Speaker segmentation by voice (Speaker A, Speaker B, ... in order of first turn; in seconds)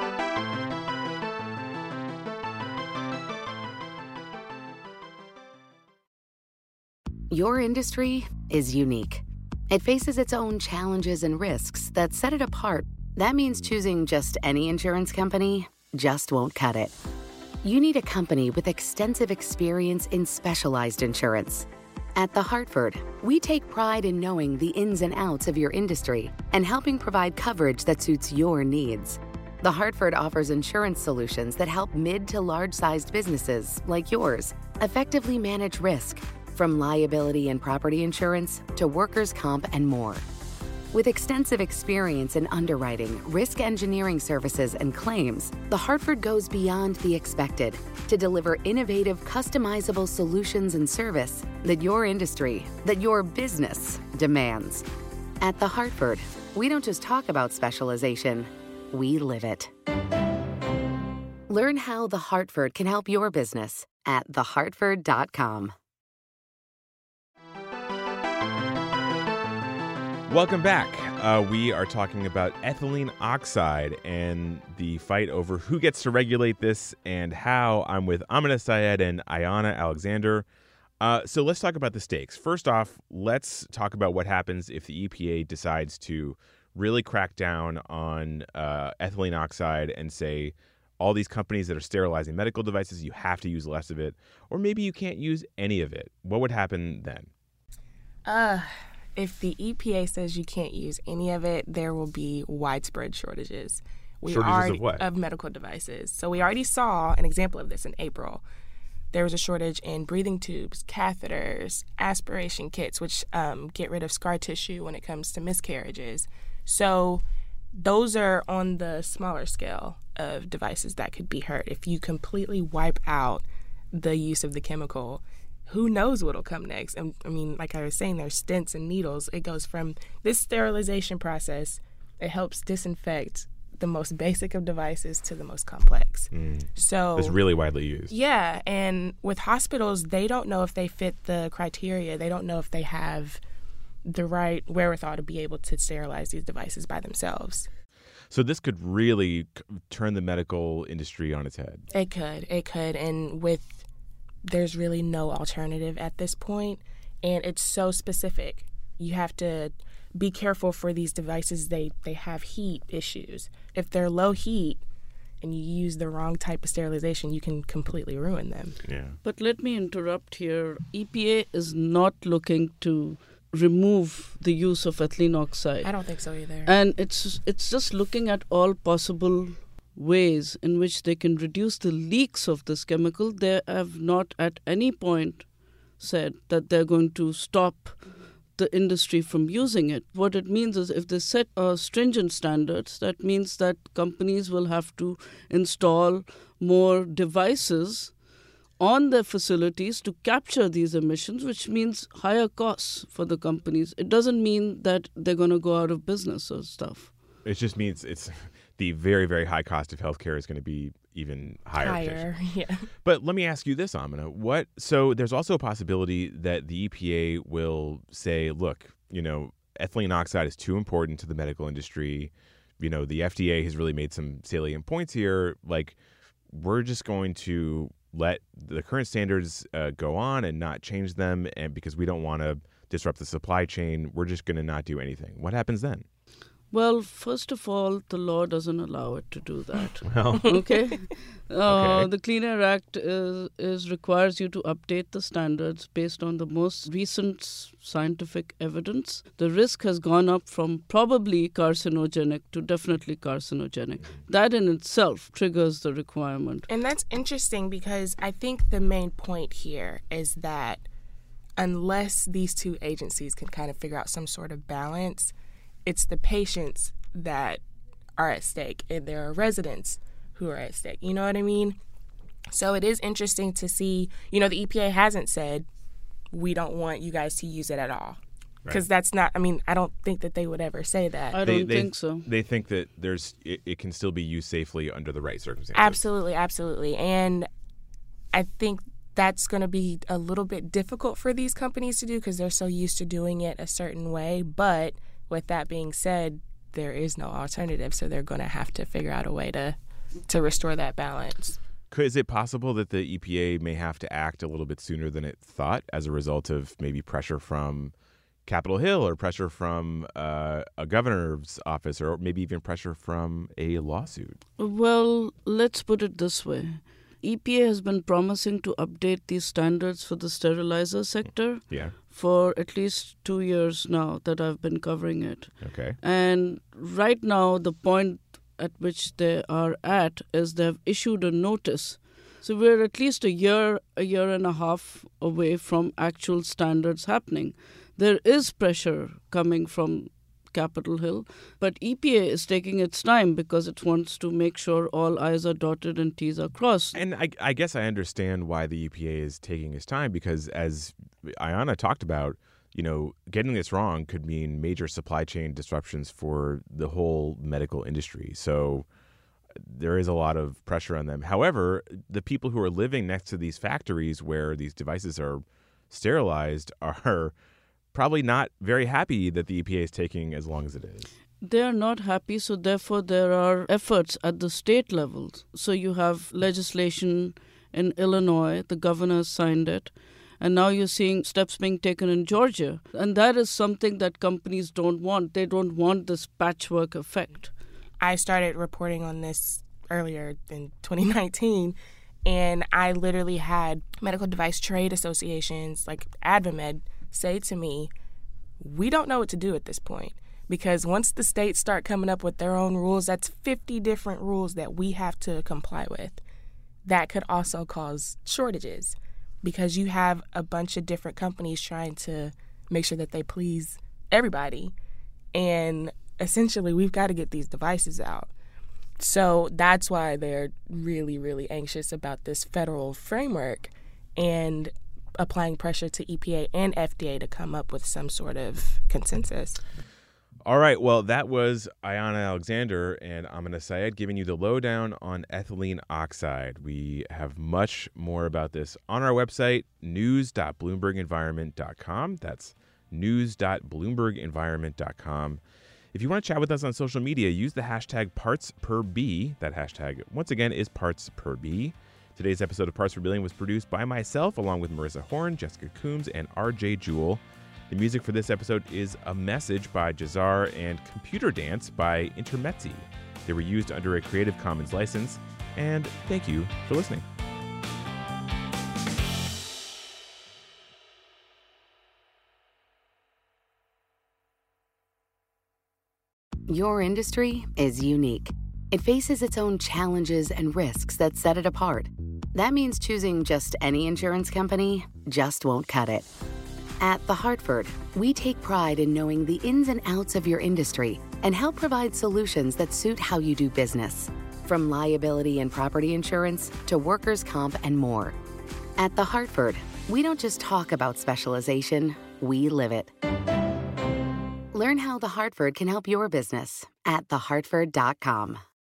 Speaker A: 7.3-16.9, 17.6-40.2, 40.9-54.9, 55.4-59.7, 61.5-65.7, 476.5-486.1, 486.8-498.1, 498.8-502.9, 504.5-508.4
Speaker B: 70.3-80.5, 81.0-97.3, 104.2-105.0, 136.3-138.1, 148.3-151.8, 168.8-169.2, 207.4-212.3, 213.0-226.0, 226.5-236.0, 240.1-240.5, 241.7-242.1, 281.4-286.0, 301.9-307.9, 308.4-314.4, 321.7-321.9, 325.6-326.0, 346.9-358.9, 359.6-367.3, 367.9-371.1, 430.5-445.4, 445.9-467.0
Speaker C: 98.2-108.4, 109.1-117.2, 117.8-137.3, 138.1-143.4, 144.0-147.7, 151.9-153.8, 154.4-164.8, 165.4-168.8, 175.8-176.7, 211.8-212.9, 256.7-260.8, 261.6-265.3, 265.9-267.6, 268.2-271.8, 272.5-275.6, 276.3-281.4, 285.8-287.5, 288.3-299.8, 300.3-301.6, 388.0-397.9, 398.6-406.2, 406.9-414.7, 415.3-418.3, 419.0-429.6
Speaker D: 169.2-175.9, 176.6-188.0, 188.5-198.1, 198.8-207.1, 236.7-256.7, 281.3-282.3, 314.6-347.0, 371.4-387.5